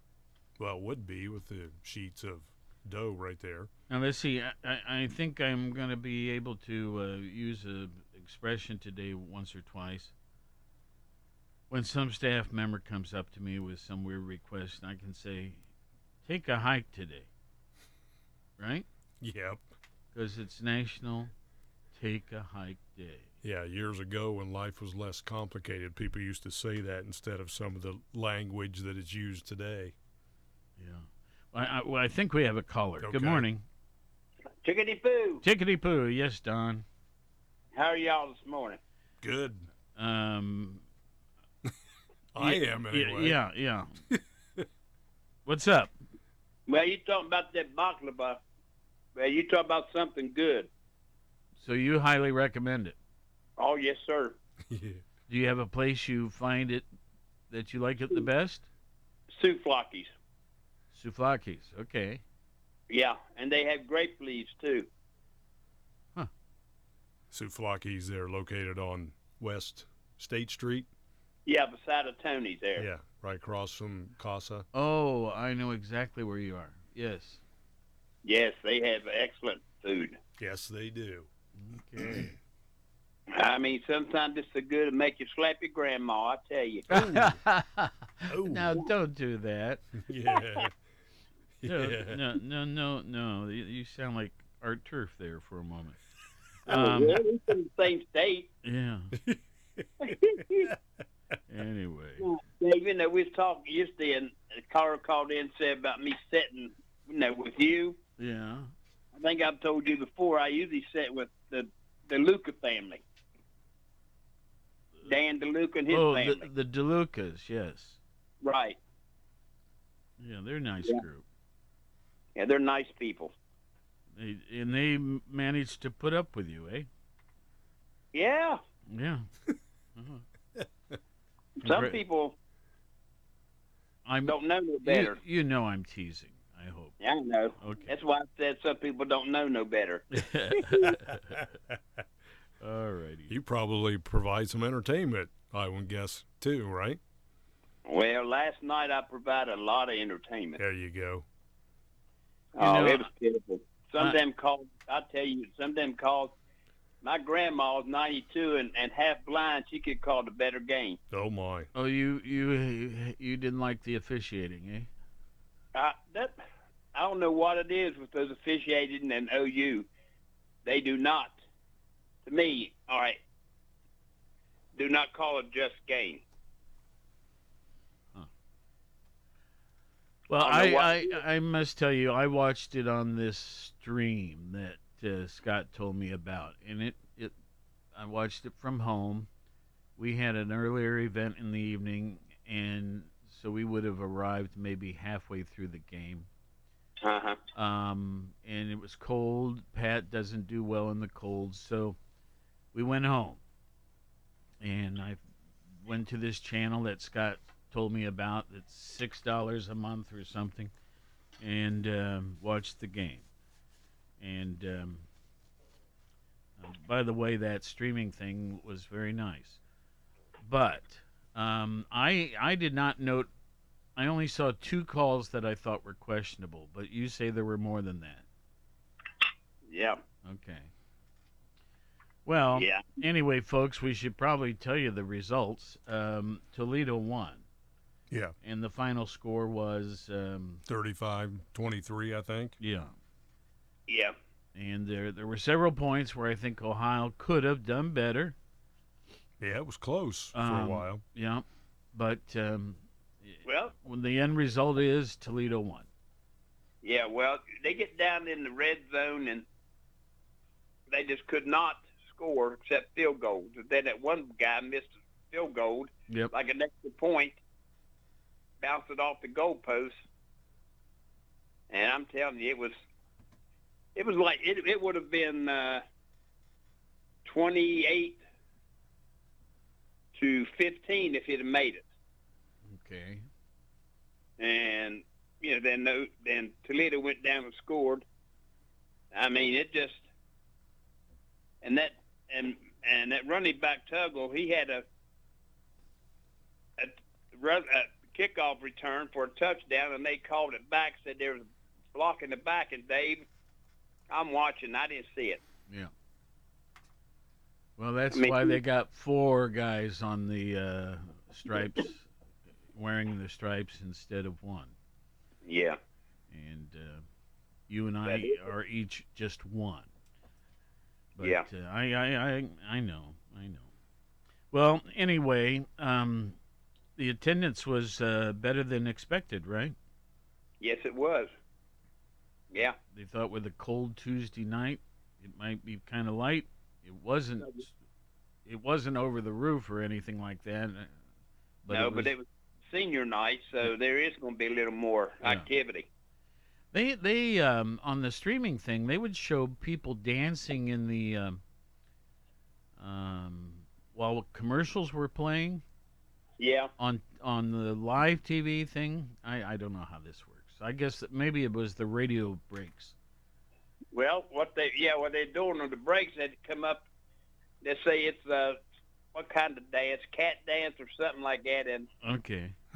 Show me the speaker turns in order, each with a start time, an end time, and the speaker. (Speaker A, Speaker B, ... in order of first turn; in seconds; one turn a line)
Speaker A: 0.6-3.7
Speaker B: 3.9-10.1
Speaker B: 11.7-15.7
Speaker B: 16.2-17.3
Speaker B: 18.6-18.9
Speaker A: 19.2-19.7
Speaker B: 20.1-21.3
Speaker B: 21.9-23.3
Speaker A: 23.4-29.9
Speaker B: 30.8-33.6
Speaker A: 33.0-33.5
Speaker C: 34.6-35.4
Speaker B: 35.4-36.9
Speaker C: 37.7-38.8
Speaker A: 39.2-39.7
Speaker B: 40.0-40.8
Speaker A: 42.3-43.4
Speaker B: 42.4-44.0
Speaker B: 45.5-45.9
Speaker C: 46.7-48.4
Speaker C: 49.2-50.7
Speaker B: 51.6-53.0
Speaker C: 53.6-54.4
Speaker A: 54.7-55.0
Speaker B: 55.3-56.9
Speaker B: 57.5-58.7
Speaker C: 59.4-60.1
Speaker B: 60.9-62.2
Speaker C: 62.9-64.9
Speaker A: 67.3-70.9
Speaker C: 71.5-72.9
Speaker A: 72.8-74.7
Speaker B: 74.7-77.4
Speaker C: 78.2-80.2
Speaker A: 80.4-81.3
Speaker B: 81.6-82.3
Speaker A: 82.0-82.3
Speaker C: 83.3-86.8
Speaker B: 86.9-89.8
Speaker A: 86.9-87.3
Speaker A: 88.3-88.7
Speaker A: 90.1-90.7
Speaker A: 91.6-92.2
Speaker B: 91.6-96.0
Speaker B: 96.7-97.2
Speaker C: 96.7-98.5
Speaker B: 98.6-99.1
Speaker C: 100.1-100.7
Speaker B: 101.5-102.3
Speaker C: 102.2-108.0
Speaker B: 108.2-108.7
Speaker C: 109.2-113.0
Speaker C: 115.0-116.5
Speaker B: 115.9-118.0
Speaker C: 118.4-118.8
Speaker B: 120.2-121.2
Speaker C: 122.4-123.3
Speaker B: 124.1-126.9
Speaker C: 128.1-128.6
Speaker B: 128.9-129.3
Speaker B: 130.0-130.2
Speaker C: 131.6-132.3
Speaker B: 131.6-132.0
Speaker B: 134.1-137.0
Speaker C: 134.2-135.2
Speaker C: 137.0-140.0
Speaker B: 137.6-137.9
Speaker B: 140.1-141.4
Speaker B: 142.6-143.3
Speaker A: 143.3-147.0
Speaker C: 147.9-150.6
Speaker A: 150.6-151.2
Speaker C: 152.6-156.3
Speaker B: 152.6-153.1
Speaker C: 157.0-161.0
Speaker A: 161.1-161.7
Speaker B: 161.7-164.9
Speaker C: 165.8-166.4
Speaker C: 166.9-169.9
Speaker C: 170.7-171.4
Speaker C: 172.3-173.2
Speaker C: 174.8-176.2
Speaker B: 180.3-187.3
Speaker C: 180.3-181.2
Speaker B: 187.9-189.3
Speaker B: 190.0-196.3
Speaker C: 197.0-197.4
Speaker B: 197.6-202.0
Speaker B: 202.7-203.4
Speaker B: 204.6-205.2
Speaker B: 205.8-210.7
Speaker B: 211.4-213.3
Speaker B: 214.2-215.1
Speaker B: 216.6-219.6
Speaker B: 220.4-223.3
Speaker B: 224.0-228.2
Speaker C: 229.7-230.0
Speaker B: 230.2-230.7
Speaker B: 232.3-237.5
Speaker C: 232.6-232.8
Speaker B: 238.4-240.6
Speaker A: 240.7-242.6
Speaker B: 242.6-242.9
Speaker C: 243.9-244.2
Speaker B: 244.6-248.4
Speaker A: 249.4-251.0
Speaker B: 250.3-255.9
Speaker C: 253.4-253.7
Speaker C: 256.8-259.4
Speaker C: 260.9-267.4
Speaker B: 266.1-266.4
Speaker C: 268.6-270.0
Speaker C: 271.7-272.7
Speaker C: 274.0-275.8
Speaker C: 277.3-278.2
Speaker C: 280.1-281.8
Speaker B: 282.7-283.3
Speaker C: 284.4-288.0
Speaker C: 289.1-290.0
Speaker C: 291.6-294.9
Speaker C: 296.8-303.2
Speaker C: 304.1-305.4
Speaker B: 307.8-312.1
Speaker C: 308.1-308.6
Speaker B: 312.7-314.8
Speaker C: 315.4-315.8
Speaker B: 316.3-317.1
Speaker B: 317.7-319.9
Speaker C: 318.1-318.4
Speaker B: 321.2-323.7
Speaker C: 321.2-321.5
Speaker B: 324.5-326.4
Speaker B: 327.0-329.8
Speaker C: 330.6-331.3
Speaker C: 332.5-332.8
Speaker B: 332.9-337.7
Speaker B: 338.5-340.9
Speaker B: 341.6-342.1
Speaker C: 341.7-345.9
Speaker B: 345.2-345.5
Speaker B: 346.7-351.4
Speaker B: 352.8-355.6
Speaker C: 356.4-356.7
Speaker B: 356.8-362.9
Speaker C: 363.9-366.8
Speaker C: 367.6-368.6
Speaker C: 369.1-371.9
Speaker B: 372.0-372.6